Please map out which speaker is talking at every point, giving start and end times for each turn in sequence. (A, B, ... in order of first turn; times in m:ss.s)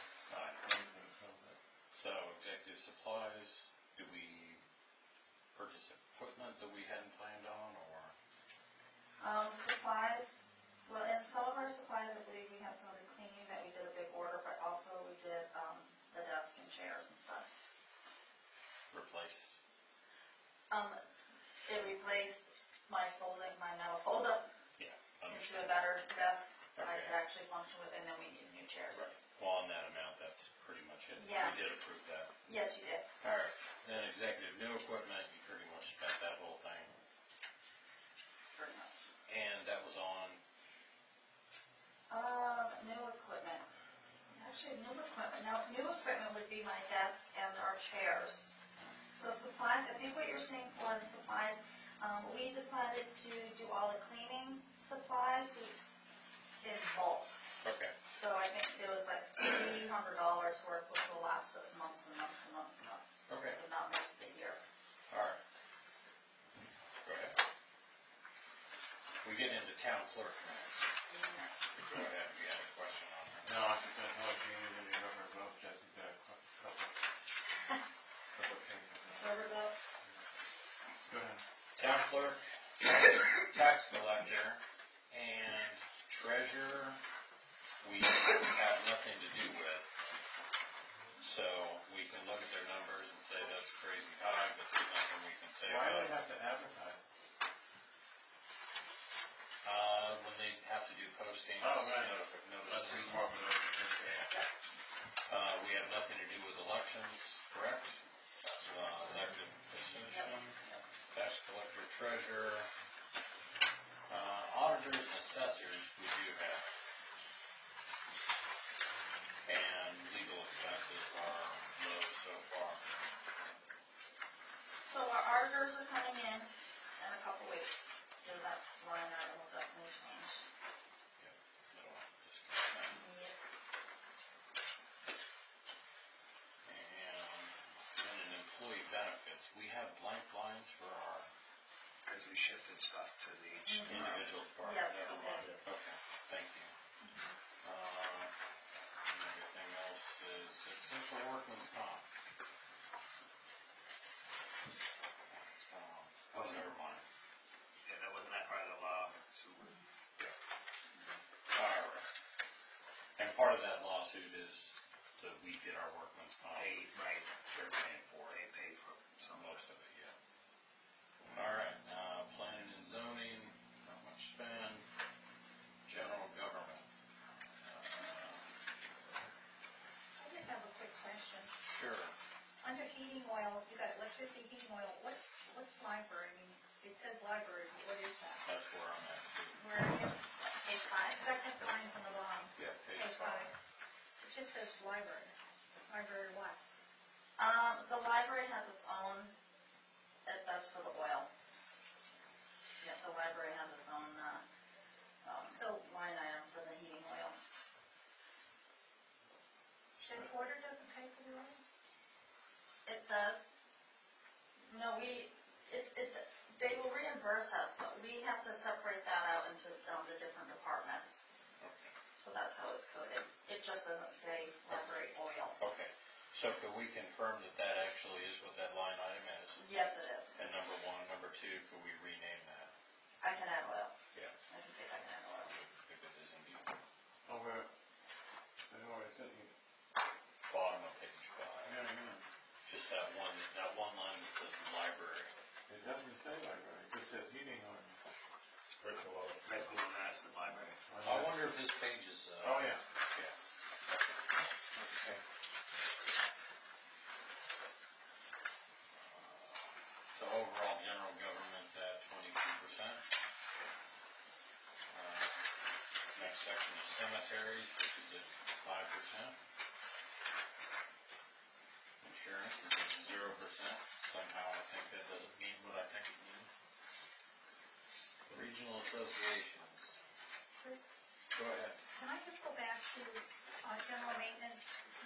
0:00.3-0:00.6 A
0:00.5-0:01.6 B
0:01.9-0:04.6 A
0:05.5-0:08.1 A
0:09.2-0:17.5 C
0:18.9-0:19.6 A
0:20.7-0:21.0 C
0:21.7-0:24.5 C
0:24.8-0:25.8 A
0:25.3-0:29.0 C
0:26.8-0:27.2 A
0:28.9-0:32.3 A
0:31.2-0:31.6 C
0:32.4-0:33.1 C
0:33.2-0:37.0 A
0:38.5-0:39.0 C
0:39.3-0:40.4 A
0:42.1-0:43.6 C
0:44.3-0:48.6 C
0:49.1-0:55.9 C
0:56.6-0:57.4 C
0:57.6-0:57.9 A
0:58.1-1:04.6 C
1:03.3-1:03.6 A
1:05.1-1:05.4 A
1:07.0-1:07.4 A
1:09.2-1:10.8 A
1:11.1-1:11.7 C
1:11.8-1:13.6 A
1:13.4-1:16.9 B
1:18.3-1:19.5 B
1:19.2-1:19.8 C
1:21.1-1:21.4 B
1:21.8-1:27.0 A
1:27.8-1:30.0 A
1:31.2-1:36.1 A
1:35.6-1:37.0 B
1:39.6-1:43.3 A
1:41.6-1:44.3 B
1:45.3-1:50.6 A
1:50.1-1:50.8 C
1:51.1-1:52.7 A
1:54.1-1:56.6 A
1:59.4-2:03.1 A
2:04.8-2:10.4 C
2:11.2-2:13.0 A
2:12.9-2:13.3 C
2:16.6-2:21.3 A
2:22.0-2:24.3 D
2:23.7-2:24.0 C
2:23.8-2:26.7 A
2:24.6-2:25.5 C
2:25.0-2:25.6 D
2:27.0-2:27.4 C
2:27.6-2:28.3 A
2:29.0-2:32.0 A
2:35.3-2:37.0 A
2:36.3-2:36.6 D
2:37.8-2:39.8 D
2:41.5-2:42.1 A
2:43.2-2:46.9 A
2:46.6-2:47.3 D
2:47.4-2:48.4 A
2:48.3-2:49.6 D
2:49.2-2:50.2 A
2:51.3-2:54.8 A
2:55.8-2:56.8 A
2:57.6-2:58.5 A
3:00.2-3:01.5 E
3:01.7-3:02.1 A
3:02.6-3:08.4 E
3:08.4-3:09.9 A
3:09.5-3:13.5 E
3:10.5-3:11.1 C
3:12.6-3:13.6 A
3:14.2-3:15.3 E
3:15.9-3:16.6 E
3:17.4-3:19.3 C
3:20.2-3:21.3 C
3:22.8-3:24.4 C
3:25.2-3:27.4 C
3:25.5-3:25.8 E
3:30.0-3:31.6 E
3:32.8-3:33.5 C
3:34.7-3:41.2 C
3:41.6-3:41.9 A
3:42.2-3:45.6 C
3:45.6-3:49.6 A
3:49.6-3:50.4 C
3:50.3-3:52.7 A
3:53.2-3:53.9 C
3:54.5-3:55.6 C
3:55.8-3:56.8 A
3:57.3-3:57.7 B
3:58.7-3:59.5 B
4:00.5-4:01.8 A
4:01.6-4:02.2 B
4:02.6-4:05.4 A
4:05.7-4:08.0 B
4:09.4-4:10.8 D
4:10.8-4:11.4 B
4:11.0-4:13.3 A
4:12.4-4:12.8 B
4:14.8-4:15.2 A
4:19.0-4:23.0 A
4:24.9-4:25.3 A
4:26.1-4:29.4 A
4:32.0-4:36.5 A
4:38.3-4:40.0 A
4:40.6-4:40.9 E
4:41.3-4:41.8 A
4:41.9-4:44.7 E